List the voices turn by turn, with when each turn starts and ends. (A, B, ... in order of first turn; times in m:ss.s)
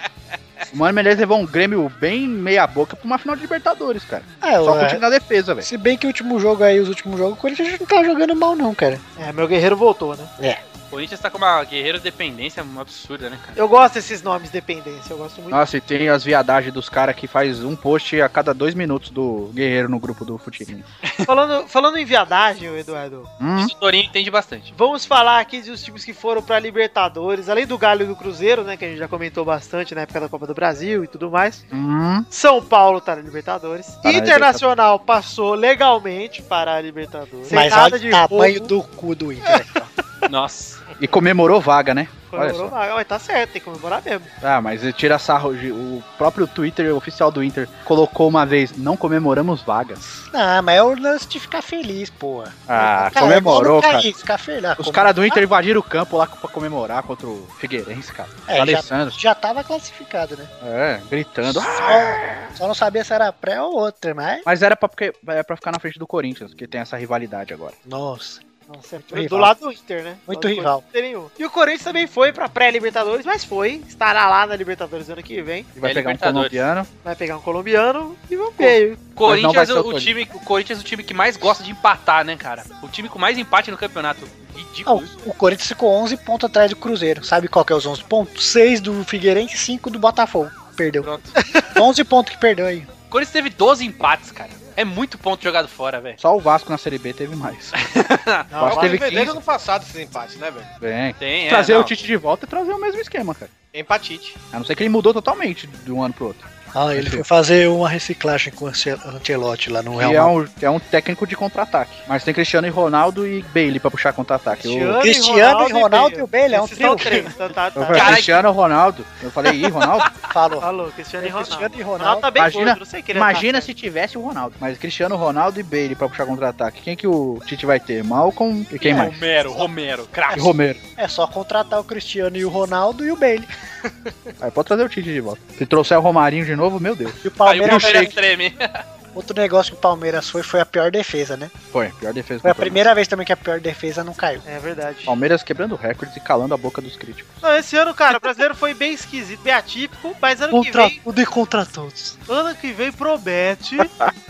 0:00.7-0:05.7 A
0:04.4-0:05.0 B
0:05.6-0:09.0 B
0:09.2-0:10.3 C
0:10.9-0:13.6 D
0:13.6-0:15.6 C
0:15.5-0:20.8 A
0:21.2-0:23.3 C
0:23.4-0:23.7 A
0:23.6-0:24.7 D
0:24.7-0:31.6 C
0:31.7-0:32.2 A
0:32.3-0:38.7 C
0:34.0-0:34.6 A
0:37.5-0:39.9 B
0:40.3-0:40.8 D
0:41.0-0:42.7 A
0:42.3-0:44.3 C
0:44.4-0:50.0 A
0:50.3-0:55.4 B
0:52.7-0:54.1 A
0:54.8-0:59.2 A
0:58.5-1:00.5 B
1:00.6-1:02.4 A
1:01.4-1:04.4 B
1:04.4-1:07.8 A
1:07.8-1:08.4 B
1:08.7-1:15.7 C
1:09.1-1:09.5 B
1:10.3-1:10.8 B
1:15.8-1:16.9 A
1:15.8-1:16.6 D
1:17.0-1:19.0 C
1:19.2-1:25.1 D
1:19.2-1:20.1 A
1:24.9-1:31.1 B
1:31.0-1:31.3 D
1:31.7-1:32.9 B
1:33.1-1:36.2 D
1:36.2-1:37.8 A
1:37.8-1:38.5 D
1:38.5-1:39.0 C
1:38.6-1:39.4 A
1:38.6-1:40.7 E
1:40.8-1:43.5 A
1:41.2-1:41.9 D
1:43.7-1:44.4 E
1:44.5-1:47.2 A
1:46.7-1:50.3 B
1:49.9-1:55.0 A
1:54.5-1:58.3 C
1:55.0-1:57.3 B
1:57.8-2:00.1 A
1:57.9-1:58.4 D
1:59.4-2:00.1 D
2:00.3-2:00.7 B
2:00.6-2:03.7 C
2:01.2-2:02.3 B
2:02.4-2:09.2 A
2:08.8-2:10.5 D
2:10.3-2:13.5 B
2:10.3-2:10.8 A
2:14.4-2:18.1 A
2:17.2-2:18.1 B
2:17.4-2:18.8 D
2:19.1-2:21.5 B
2:21.7-2:22.8 A
2:22.4-2:24.4 B
2:24.4-2:25.2 C
2:25.0-2:27.4 A
2:27.4-2:31.0 C
2:30.5-2:32.2 B
2:32.3-2:33.9 C